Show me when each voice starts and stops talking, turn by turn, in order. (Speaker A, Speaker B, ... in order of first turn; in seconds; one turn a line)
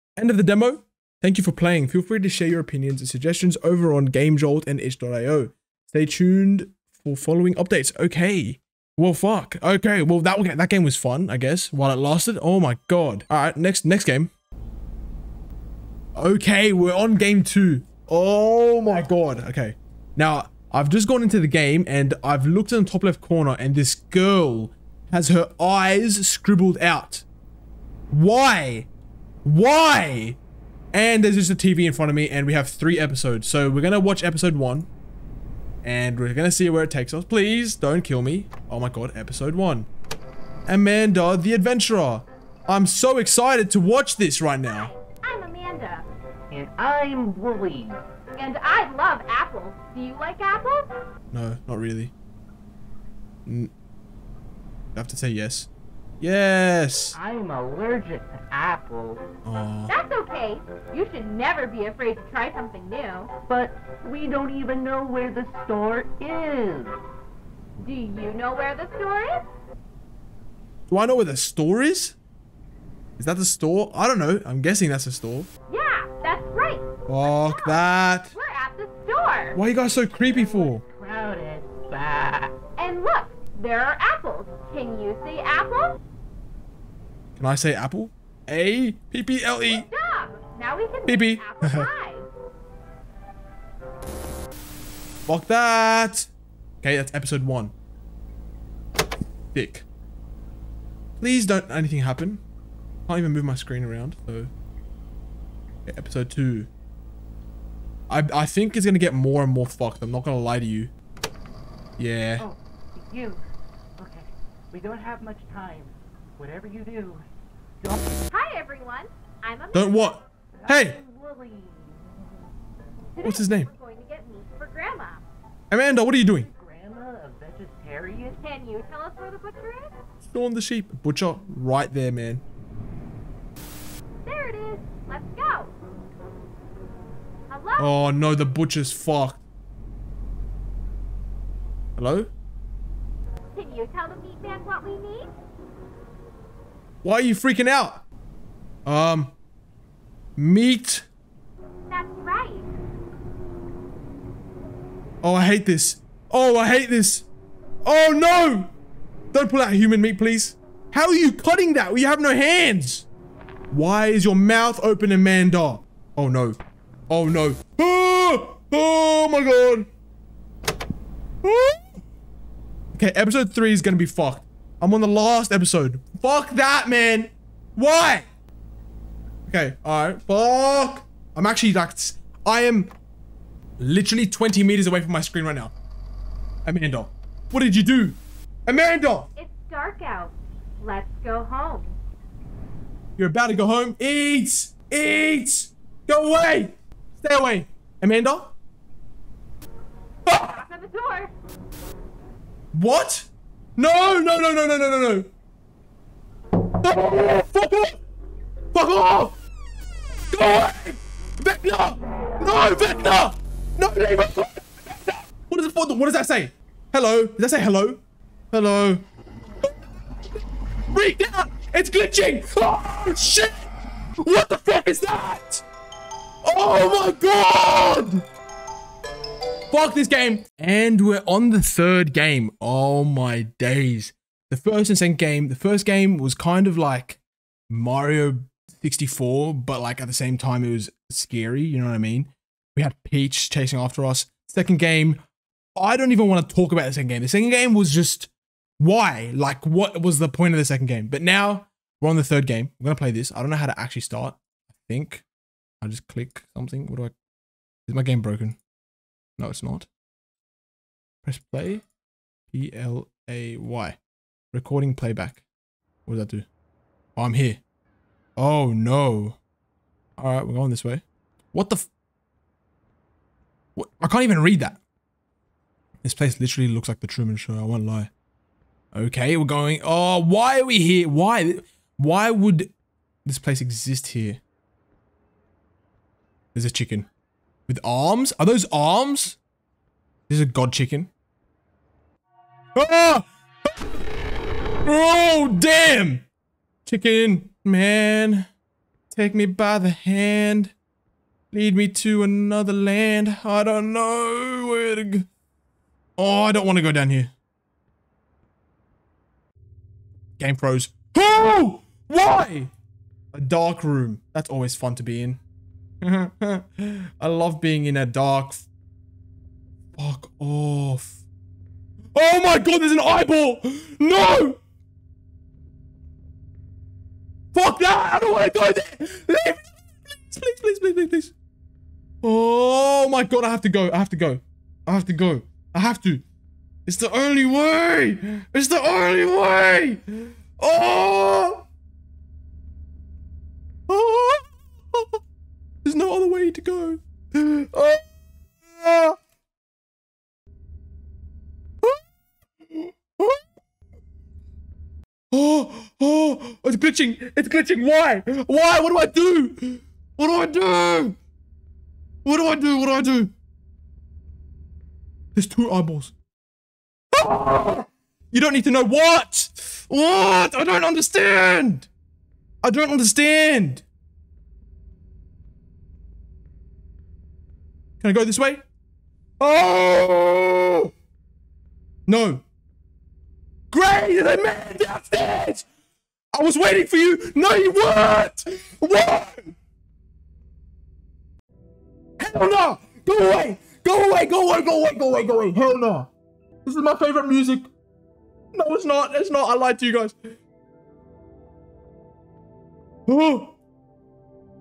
Speaker A: 0.2-14.3
Speaker A: 16.2-27.3
Speaker A: 28.1-28.9
Speaker A: 29.4-30.4
Speaker A: 30.9-34.9
Speaker A: 35.8-39.9
Speaker A: 40.7-44.9
Speaker B: 44.7-46.1
Speaker C: 46.5-48.0
Speaker B: 48.4-50.9
Speaker A: 51.3-52.1
Speaker A: 53.5-53.7
Speaker A: 55.0-55.7
Speaker A: 56.2-57.2
Speaker C: 57.1-59.2
Speaker A: 59.5-59.9
Speaker B: 59.9-63.3
Speaker C: 63.5-67.0
Speaker B: 67.8-69.5
Speaker A: 70.9-72.2
Speaker A: 73.2-75.5
Speaker B: 75.7-76.9
Speaker A: 77.1-78.3
Speaker B: 78.3-79.6
Speaker A: 79.5-80.8
Speaker C: 79.8-82.6
Speaker B: 82.8-86.0
Speaker A: 87.4-89.9
Speaker B: 89.7-92.3
Speaker A: 91.1-91.9
Speaker A: 95.3-96.3
Speaker A: 96.8-97.7
Speaker A: 99.5-99.9
Speaker A: 101.2-102.4
Speaker A: 103.1-104.5
Speaker A: 105.8-106.7
Speaker A: 108.1-110.9
Speaker A: 112.0-112.5
Speaker C: 112.4-113.4
Speaker C: 114.0-117.2
Speaker C: 117.8-118.2
Speaker B: 118.3-120.2
Speaker A: 119.7-121.0
Speaker C: 120.6-122.4
Speaker B: 123.1-125.2
Speaker A: 123.2-123.7
Speaker A: 125.7-126.5
Speaker C: 126.2-128.4
Speaker B: 128.4-129.9
Speaker A: 130.2-132.4
Speaker B: 134.3-135.8
Speaker B: 137.5-137.9
Speaker A: 137.8-139.4
Speaker A: 142.0-142.3
Speaker B: 143.5-145.3
Speaker A: 147.0-148.0
Speaker A: 148.9-149.3
Speaker A: 150.4-151.1
Speaker B: 151.9-152.7
Speaker A: 155.2-157.3
Speaker A: 157.8-158.7
Speaker A: 159.3-163.1
Speaker A: 163.7-166.6
Speaker A: 167.1-169.9
Speaker A: 171.4-171.9
Speaker A: 172.9-178.3
Speaker A: 179.5-182.9
Speaker A: 183.8-185.7
Speaker A: 186.7-189.3
Speaker B: 189.4-192.0
Speaker A: 193.2-198.5
Speaker A: 200.3-200.6
Speaker B: 200.3-201.3
Speaker A: 202.7-205.3
Speaker A: 206.8-208.0
Speaker A: 208.7-209.4
Speaker A: 210.3-219.1
Speaker A: 220.9-223.7
Speaker A: 224.2-225.6
Speaker A: 226.4-228.2
Speaker A: 229.7-245.2
Speaker A: 245.8-255.2
Speaker A: 255.8-257.1
Speaker A: 257.9-258.6
Speaker A: 259.4-259.9
Speaker A: 261.2-261.8
Speaker A: 262.5-264.0
Speaker A: 264.5-265.4
Speaker A: 266.1-266.5
Speaker A: 267.2-267.6
Speaker A: 268.4-269.4
Speaker A: 270.2-271.9
Speaker A: 273.8-274.8
Speaker A: 276.0-278.1
Speaker A: 278.9-282.7
Speaker A: 283.2-284.4
Speaker A: 286.5-287.1
Speaker A: 287.7-289.4
Speaker A: 290.3-291.1
Speaker A: 292.7-293.9
Speaker A: 294.9-296.2
Speaker A: 296.9-298.5
Speaker A: 299.1-300.7
Speaker A: 301.5-305.3
Speaker A: 306.2-307.3
Speaker A: 310.4-312.7
Speaker A: 313.3-315.4
Speaker A: 316.0-318.7
Speaker A: 319.9-321.2
Speaker A: 322.1-324.6
Speaker A: 327.5-331.3
Speaker A: 332.2-336.2
Speaker A: 336.9-341.6
Speaker A: 343.9-345.1
Speaker A: 345.8-348.0
Speaker A: 348.7-349.2
Speaker A: 352.7-353.4
Speaker A: 355.3-361.2
Speaker A: 362.2-363.3
Speaker A: 365.4-366.1
Speaker A: 367.1-371.9
Speaker A: 372.6-373.8
Speaker A: 378.0-378.6
Speaker A: 379.4-380.9
Speaker A: 382.1-382.4
Speaker A: 383.7-385.7
Speaker A: 386.3-389.6
Speaker A: 392.2-396.1
Speaker A: 396.6-397.7
Speaker A: 398.5-400.2
Speaker A: 403.1-403.6